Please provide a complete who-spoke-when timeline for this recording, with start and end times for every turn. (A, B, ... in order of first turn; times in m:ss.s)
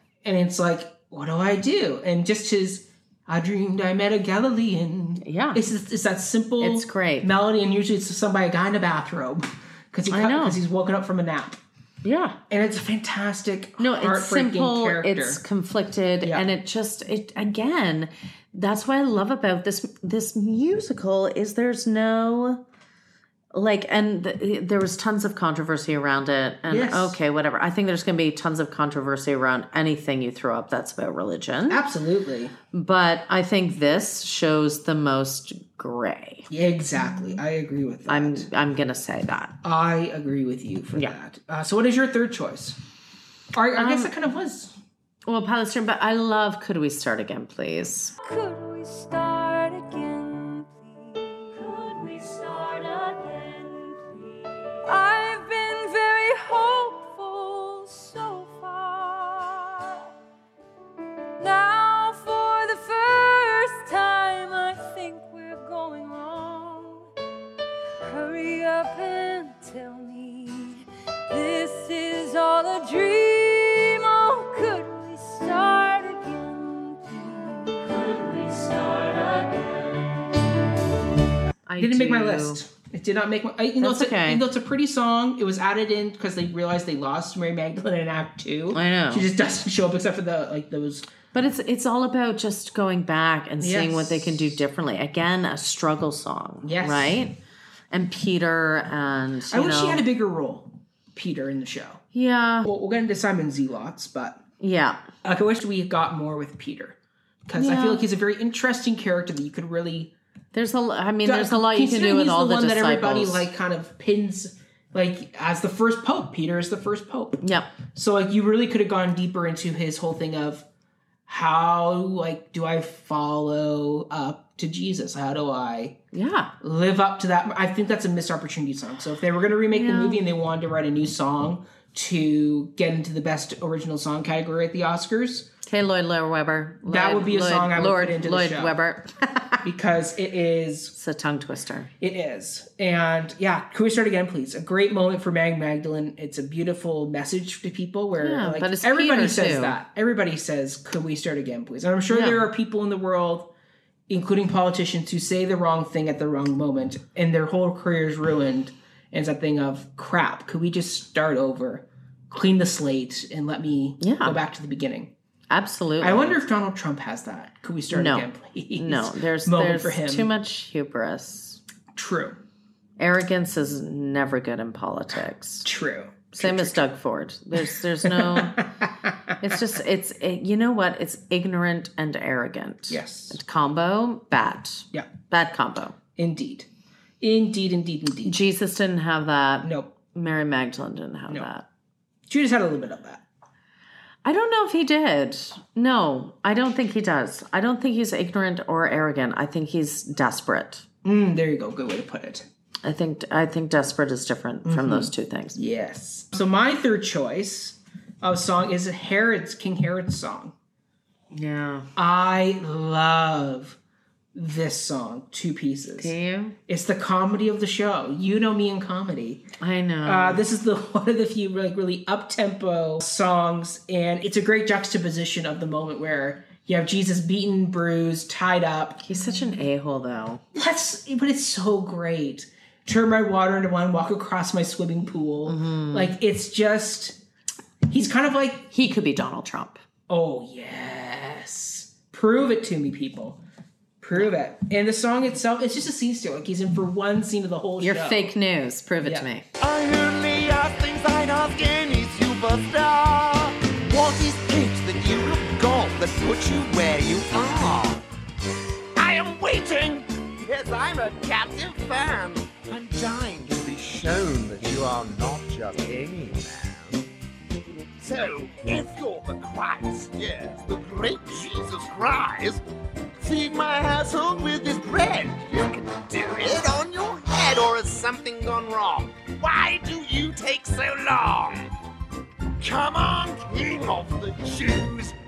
0:00.2-0:11.6 A
0:05.2-0:05.6 B
0:06.6-0:07.3 B
0:10.1-0:10.6 B
0:12.0-0:12.4 B
0:12.5-0:15.4 A
0:13.8-0:22.6 B
0:23.5-0:31.8 B
0:26.7-0:27.2 A
0:31.7-0:32.5 A
0:32.7-0:36.5 B
0:36.5-0:38.5 A
0:38.1-0:39.6 B
0:39.6-0:42.8 A
0:43.5-0:44.8 A
0:43.8-0:44.1 B
0:45.3-0:50.2 B
0:48.3-0:54.1 C
0:54.9-0:57.4 B
0:54.9-0:59.9 C
1:01.4-1:07.0 C
1:01.5-1:02.9 B
1:03.7-1:06.9 B
1:08.0-1:19.8 C
1:08.2-1:10.4 B
1:14.1-1:16.4 B
1:21.7-1:22.6 B
1:21.8-1:31.1 A
1:23.8-1:24.4 B
1:28.7-1:29.3 B
1:31.3-1:37.4 B
1:33.6-1:34.6 A
1:36.6-1:37.2 A
1:37.9-1:40.0 B
1:39.5-1:42.0 A
1:42.1-1:42.7 B
1:42.6-1:44.4 A
1:44.6-1:45.0 B
1:45.2-1:50.2 A
1:47.6-1:48.0 B
1:50.5-1:53.5 B
1:51.2-2:00.7 A
1:57.4-1:57.7 B
2:01.3-2:06.0 A
2:06.1-2:06.5 B
2:06.6-2:15.5 A
2:09.7-2:10.2 B
2:15.6-2:19.6 B
2:16.8-2:18.8 A
2:19.6-2:21.0 A
2:21.0-2:21.9 B
2:22.0-2:33.5 A
2:28.2-2:29.8 B
2:32.1-2:32.5 B
2:34.1-2:45.1 A
2:44.0-2:44.4 B
2:45.5-2:46.4 B
2:46.0-2:50.3 A
2:47.9-2:51.6 B
2:51.9-2:52.4 A
2:53.0-2:55.7 B
2:55.6-2:56.9 A
2:56.3-2:58.7 B
2:58.0-2:59.1 A
2:59.4-3:06.0 B
3:02.9-3:03.4 A
3:06.2-3:06.7 A
3:07.2-3:08.4 A
3:08.2-3:11.7 B
3:09.6-3:09.9 A
3:12.3-3:13.2 A
3:14.2-3:20.8 B
3:21.0-3:22.5 A
3:22.8-3:25.6 B
3:24.6-3:30.5 A
3:31.3-3:31.9 B
3:32.0-3:33.8 A
3:34.3-3:36.1 A
3:36.0-3:36.6 B
3:36.7-3:39.4 A
3:39.6-3:40.4 B
3:40.0-3:49.0 A
3:49.0-3:50.4 B
3:50.5-3:57.2 A
3:55.5-3:56.2 B
3:57.9-3:58.7 A
3:58.7-3:59.8 B
4:00.1-4:03.4 A
4:04.0-4:08.3 A
4:07.8-4:09.5 B
4:09.0-4:09.3 A
4:09.6-4:18.0 D
4:19.0-4:27.0 D
4:28.0-4:32.6 D
4:33.2-4:41.7 D
4:42.6-4:45.2 D